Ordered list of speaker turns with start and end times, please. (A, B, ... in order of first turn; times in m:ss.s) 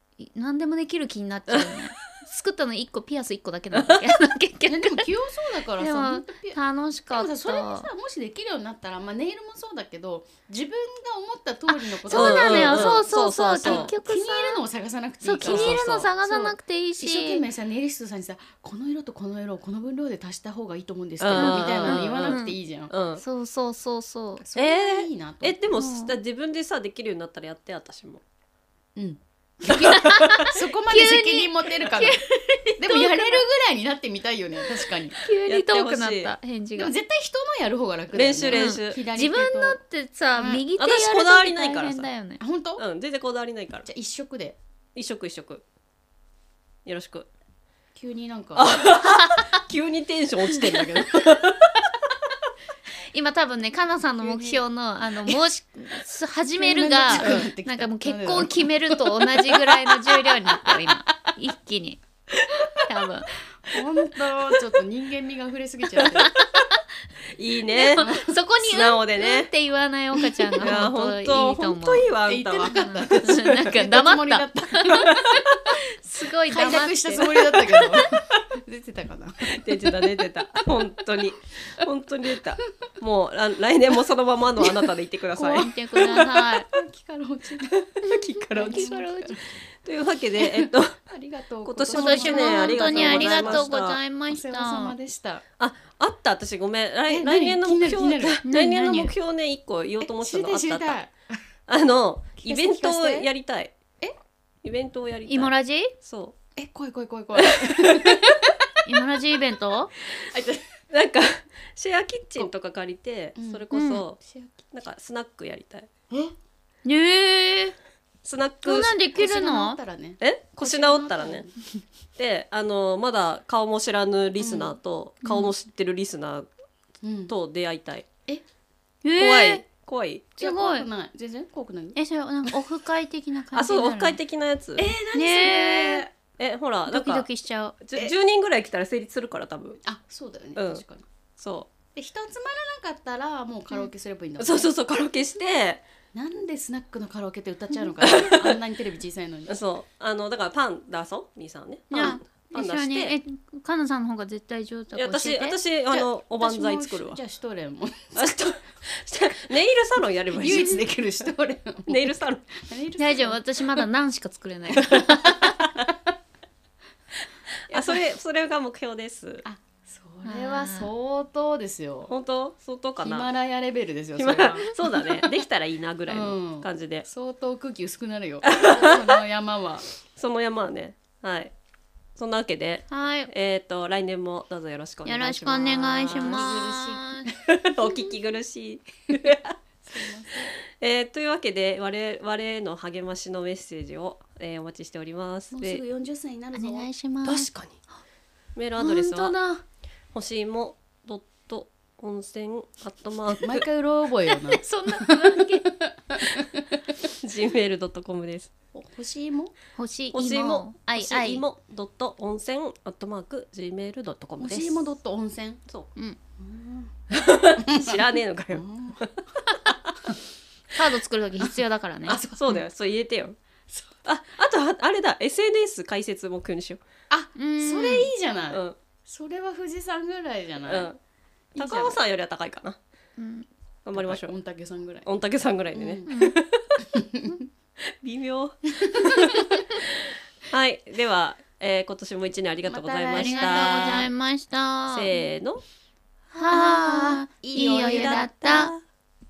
0:00.2-0:05.1 A
0:01.5-0:01.8 B
0:03.7-0:04.0 B
0:04.7-0:13.1 C
0:05.8-0:07.9 A
0:11.7-0:14.6 A
0:12.1-0:13.9 B
0:13.6-0:22.9 C
0:15.2-0:17.4 A
0:15.4-0:16.1 B
0:21.2-0:23.2 B
0:21.3-0:22.6 A
0:23.2-0:24.4 A
0:24.4-0:25.6 C
0:24.6-0:28.2 B
0:25.8-0:26.1 A
0:29.0-0:32.2 C
0:29.6-0:33.5 A
0:29.9-0:30.4 B
0:32.8-0:35.2 C
0:34.9-0:36.9 A
0:35.5-0:36.4 B
0:36.8-0:39.8 C
0:38.1-0:39.0 B
0:38.5-0:42.4 A
0:40.4-0:40.7 C
0:40.8-0:42.1 B
0:42.4-0:42.8 C
0:42.8-0:43.9 B
0:43.9-0:44.6 C
0:45.0-0:45.6 B
0:46.8-0:47.3 B
0:48.0-0:48.9 C
0:48.6-0:51.9 B
0:49.0-0:49.4 A
0:50.6-0:51.4 C
0:53.1-1:02.0 A
0:54.2-0:54.6 C
0:56.6-1:01.0 C
0:57.2-0:57.5 B
1:02.8-1:03.3 A
1:03.6-1:06.3 C
1:06.0-1:06.3 B
1:06.2-1:06.8 A
1:07.3-1:08.1 B
1:07.7-1:18.0 A
1:07.9-1:08.4 C
1:08.6-1:09.5 B
1:10.6-1:13.7 B
1:12.3-1:15.5 C
1:15.1-1:15.6 B
1:16.5-1:20.7 C
1:19.4-1:26.4 B
1:25.3-1:27.9 C
1:25.5-1:26.7 A
1:27.7-1:28.9 B
1:28.0-1:29.4 A
1:28.6-1:29.4 C
1:29.8-1:31.0 B
1:30.4-1:33.7 C
1:31.6-1:34.0 B
1:31.9-1:34.9 A
1:34.3-1:35.4 C
1:35.6-1:41.0 B
1:37.1-1:38.4 C
1:38.4-1:39.1 A
1:40.0-1:41.1 C
1:41.7-1:43.8 B
1:42.4-1:43.3 C
1:44.6-1:46.4 B
1:45.3-1:45.9 A
1:46.6-1:48.8 C
1:47.4-1:48.4 B
1:48.8-1:49.9 A
1:50.1-1:55.9 B
1:53.4-1:53.7 C
1:53.7-1:54.0 A
1:54.2-1:54.5 C
1:56.8-1:57.8 A
1:58.2-1:59.0 B
1:58.6-1:59.8 A
1:59.1-2:01.5 C
2:00.2-2:01.5 B
2:02.2-2:06.5 B
2:04.4-2:04.7 C
2:07.0-2:07.3 C
2:07.3-2:08.1 B
2:09.0-2:09.6 A
2:09.2-2:10.4 B
2:10.4-2:10.9 A
2:10.4-2:12.0 C
2:12.0-2:14.2 A
2:13.5-2:14.9 B
2:14.8-2:16.1 C
2:15.1-2:16.1 A
2:16.4-2:17.3 B
2:16.9-2:17.8 A
2:17.8-2:19.8 B
2:19.8-2:21.1 C
2:20.6-2:20.8 B
2:21.4-2:21.7 B
2:22.0-2:24.7 C
2:24.4-2:25.8 B
2:26.1-2:29.5 C
2:28.0-2:28.6 B
2:29.5-2:33.2 B
2:31.9-2:35.6 A
2:34.9-2:37.2 B
2:35.9-2:38.6 C
2:38.2-2:40.9 B
2:40.3-2:43.9 C
2:41.9-2:42.4 B
2:43.0-2:45.6 A
2:44.8-2:45.0 B
2:44.9-2:46.0 C
2:47.7-2:48.0 C
2:47.7-2:49.4 B
2:49.4-2:52.1 C
2:50.2-2:50.9 A
2:52.1-2:53.3 B
2:53.0-2:55.4 C
2:54.2-2:57.1 B
2:56.1-2:59.9 C
2:58.4-2:59.2 B
3:00.1-3:01.5 B
3:02.2-3:06.6 B
3:02.9-3:03.3 A
3:05.0-3:07.3 A
3:06.1-3:07.6 C
3:07.5-3:09.6 B
3:09.8-3:10.5 C
3:10.6-3:15.8 B
3:15.5-3:16.9 C
3:16.6-3:17.5 A
3:17.2-3:17.8 B
3:18.6-3:19.4 B
3:18.8-3:19.6 A
3:20.1-3:23.7 B
3:23.4-3:26.6 C
3:24.5-3:25.7 A
3:27.2-3:28.5 B
3:28.7-3:29.5 C
3:29.8-3:31.4 A
3:30.1-3:34.9 B
3:34.4-3:35.6 C
3:36.4-3:36.9 C
3:37.1-3:40.0 B
3:37.6-3:39.7 C
3:40.7-3:42.2 A
3:42.1-3:42.6 C
3:42.2-3:43.4 B
3:44.0-3:46.8 B
3:47.1-3:50.9 C
3:47.4-3:48.1 A
3:48.5-3:48.8 B
3:50.7-3:51.0 B
3:51.6-3:52.0 C
3:51.6-3:52.8 B
3:53.2-3:53.5 A
3:53.8-3:54.3 B
3:53.9-3:55.1 C
3:55.0-3:56.8 B
3:55.7-3:56.1 C
3:56.1-3:56.4 A
3:56.8-3:57.4 C
3:57.9-4:04.1 B
3:58.8-3:59.6 C
4:02.7-4:04.1 C
4:03.2-4:05.1 A
4:04.9-4:05.6 B
4:06.3-4:08.7 A
4:06.5-4:08.3 C
4:07.4-4:08.8 B